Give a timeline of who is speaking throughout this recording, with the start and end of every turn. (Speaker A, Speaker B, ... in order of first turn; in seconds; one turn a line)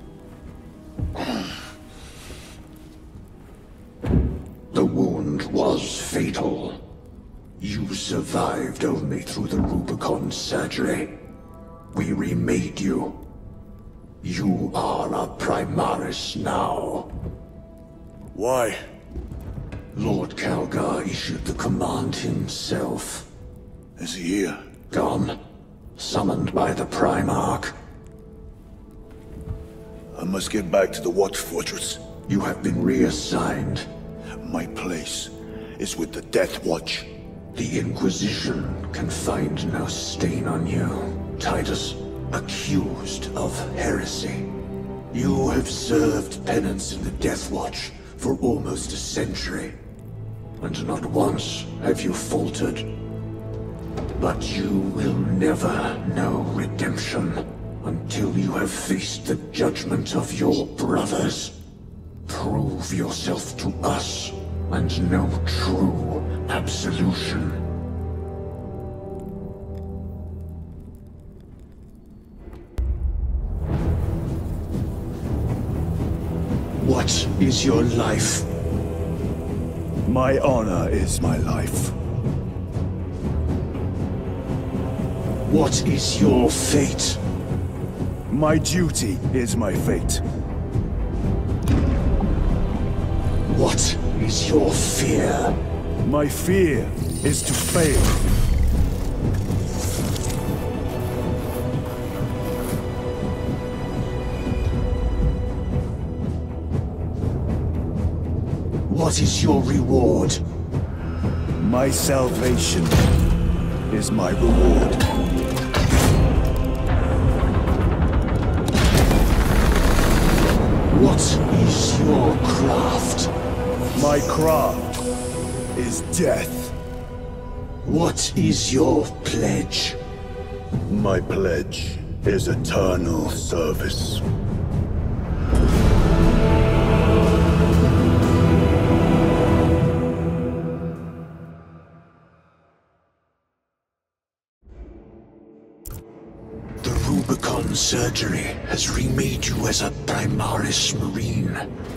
Speaker A: 4.7-6.8
Speaker A: 7.6-11.2
Speaker A: 11.9-13.2
Speaker A: 14.2-17.1
Speaker B: 18.3-18.8
Speaker A: 19.9-23.3
Speaker B: 24.0-24.6
Speaker A: 24.9-25.4
Speaker A: 26.0-27.8
Speaker B: 30.1-32.0
Speaker A: 32.2-33.9
Speaker B: 34.4-37.1
Speaker A: 37.5-44.5
Speaker A: 45.1-49.8
Speaker A: 50.6-53.0
Speaker A: 54.1-61.6
Speaker A: 62.2-67.6
Speaker A: 76.8-78.5
Speaker B: 80.0-81.9
Speaker A: 85.4-87.2
Speaker B: 88.3-90.2
Speaker A: 93.5-95.6
Speaker B: 96.0-98.2
Speaker A: 108.9-110.4
Speaker B: 111.6-113.0
Speaker B: 113.9-115.0
Speaker A: 120.9-123.3
Speaker B: 123.9-125.0
Speaker B: 125.7-126.7
Speaker A: 127.8-130.0
Speaker B: 130.9-134.2
Speaker A: 146.8-151.7